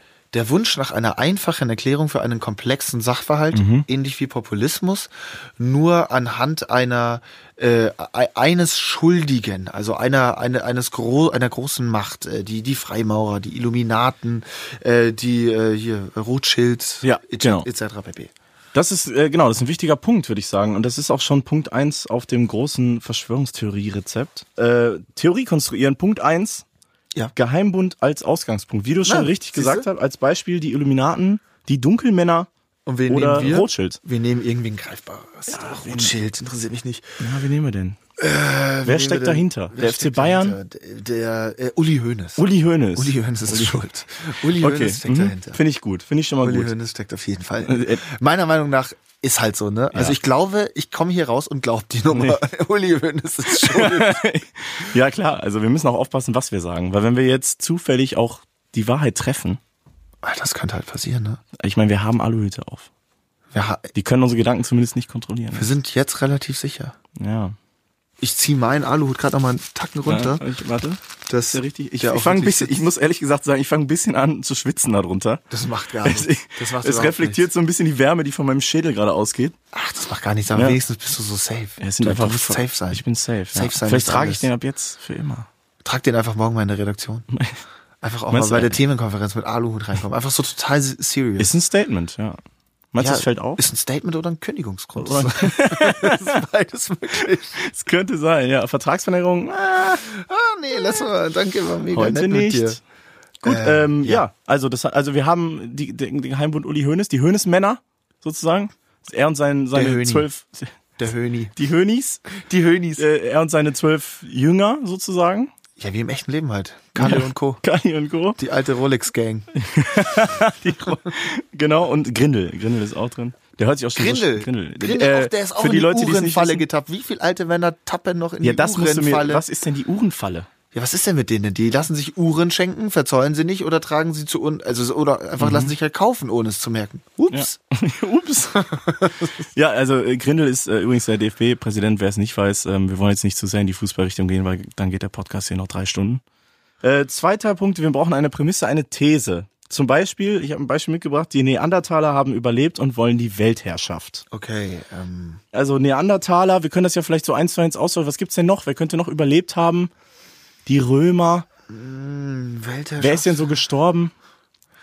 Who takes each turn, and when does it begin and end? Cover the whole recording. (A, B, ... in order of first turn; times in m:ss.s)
0:00.3-0:18.3 A
0:03.5-0:03.9 B
0:17.0-0:17.7 B
0:18.7-0:26.6 B
0:27.4-0:32.5 B
0:29.1-0:29.9 A
0:32.9-0:37.2 A
0:33.1-0:34.0 B
0:35.5-0:36.1 B
0:37.2-0:38.0 B
0:38.2-0:45.6 A
0:38.8-0:40.6 B
0:42.4-0:43.8 B
0:44.4-0:46.7 B
0:46.4-0:54.3 A
0:47.6-0:48.0 B
0:49.9-0:50.2 B
0:52.1-0:52.4 B
0:53.5-0:59.6 B
1:00.2-1:01.4 A
1:01.6-1:02.9 B
1:03.5-1:03.9 A
1:04.0-1:05.7 B
1:05.5-1:07.0 A
1:07.2-1:07.6 B
1:08.2-1:10.4 A
1:10.1-1:11.0 B
1:11.3-1:12.9 A
1:11.5-1:15.4 B
1:15.5-1:17.5 A
1:16.0-1:19.6 B
1:19.7-1:24.5 A
1:20.5-1:20.8 B
1:21.8-1:25.5 B
1:25.8-1:27.3 A
1:27.3-1:27.6 B
1:28.0-1:31.6 A
1:28.3-1:28.8 B
1:31.4-1:32.4 B
1:32.9-1:33.6 B
1:33.0-1:37.6 A
1:35.0-1:36.4 B
1:37.6-1:40.0 B
1:40.0-1:42.8 A
1:41.9-1:42.8 B
1:43.4-1:50.7 B
1:43.4-1:44.2 A
1:49.7-1:50.3 A
1:51.0-1:51.5 A
1:51.6-1:52.3 B
1:52.3-1:53.1 A
1:53.0-1:55.5 B
1:55.8-1:57.6 A
1:57.0-1:58.4 B
1:58.4-1:59.5 A
1:59.5-2:06.7 B
2:00.7-2:01.1 A
2:04.0-2:09.4 A
2:08.4-2:10.5 B
2:10.7-2:17.6 A
2:15.4-2:15.7 B
2:17.3-2:18.7 B
2:18.6-2:19.4 A
2:19.5-2:26.2 B
2:26.8-2:34.2 B
2:34.3-2:35.4 A
2:35.5-2:39.9 B
2:40.7-2:41.5 B
2:41.7-2:43.6 A
2:43.0-2:44.1 B